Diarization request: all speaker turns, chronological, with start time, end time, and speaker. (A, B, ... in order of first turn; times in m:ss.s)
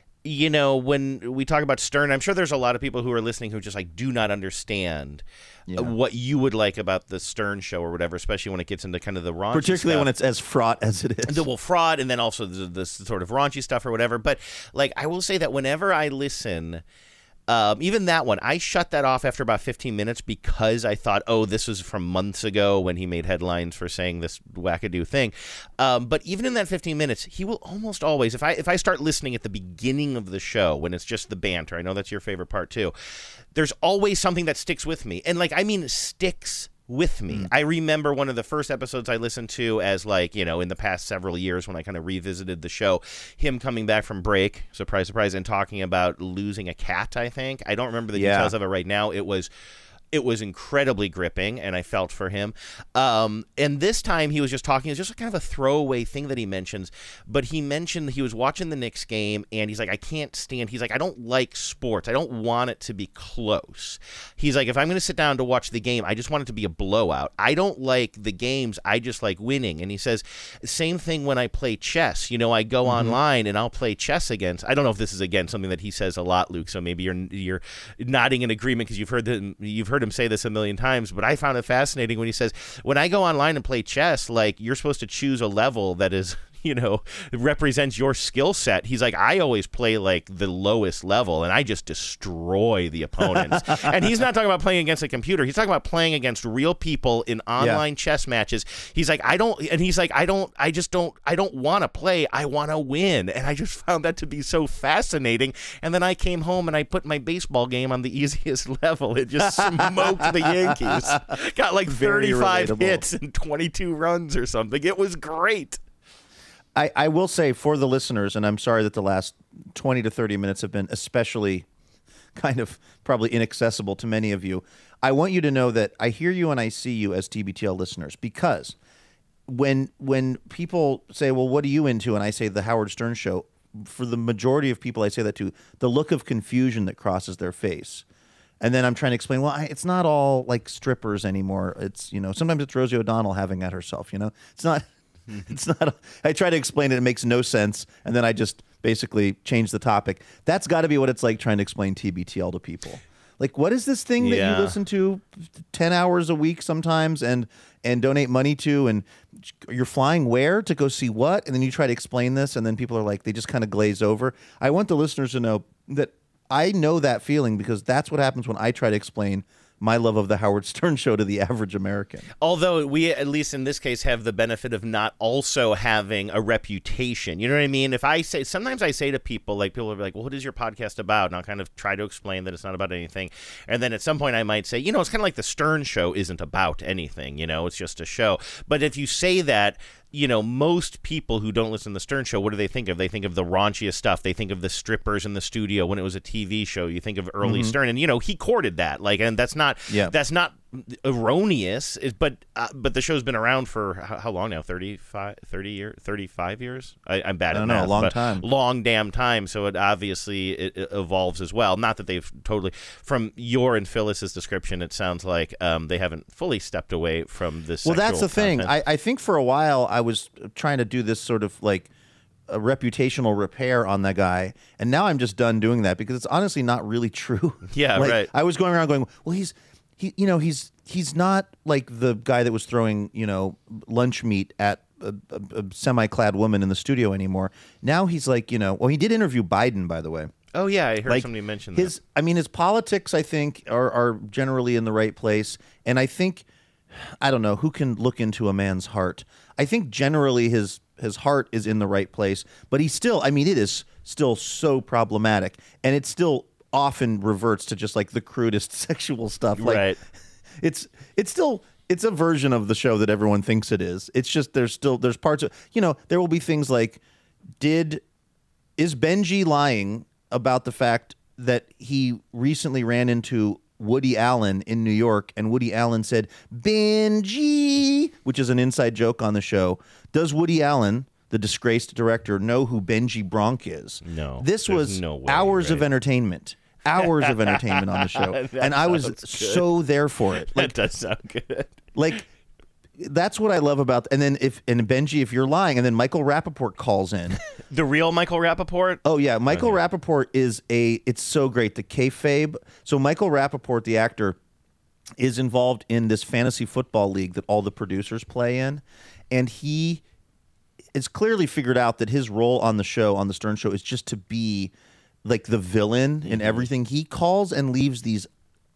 0:00.2-0:05.2 A
0:05.7-0:05.9 B
0:05.7-0:10.1 A
0:09.5-0:11.4 B
0:11.3-0:16.8 A
0:17.5-0:32.9 A
0:33.5-0:49.5 A
0:48.1-0:48.5 B
0:50.1-1:55.8 A
1:12.8-1:13.2 B
1:33.2-1:33.8 B
1:49.4-1:51.2 B
1:51.9-1:53.1 B
1:56.7-2:01.7 B
2:02.3-2:08.8 B
2:09.5-2:18.0 B
2:18.6-2:24.9 B
2:25.4-2:52.3 B
2:34.2-2:34.8 A
2:52.4-3:38.7 A
3:17.4-3:17.7 B
3:19.9-3:20.1 B
3:27.5-3:28.4 B
3:37.8-3:41.9 B
3:42.5-4:00.3 B
3:47.7-3:48.3 A
4:00.5-4:02.0 A
4:01.0-4:19.9 B
4:19.6-4:20.0 A
4:20.6-4:27.0 B
4:27.6-4:28.0 B
4:28.8-4:50.7 B
4:44.0-4:45.9 A
4:47.0-4:49.7 A
4:50.5-4:51.9 A
4:52.0-4:52.2 B
4:53.0-4:57.4 B
4:57.7-4:59.8 A
4:59.0-5:04.4 B
5:05.2-5:10.0 B
5:10.9-5:14.7 B
5:15.2-5:18.3 B
5:16.2-5:16.7 A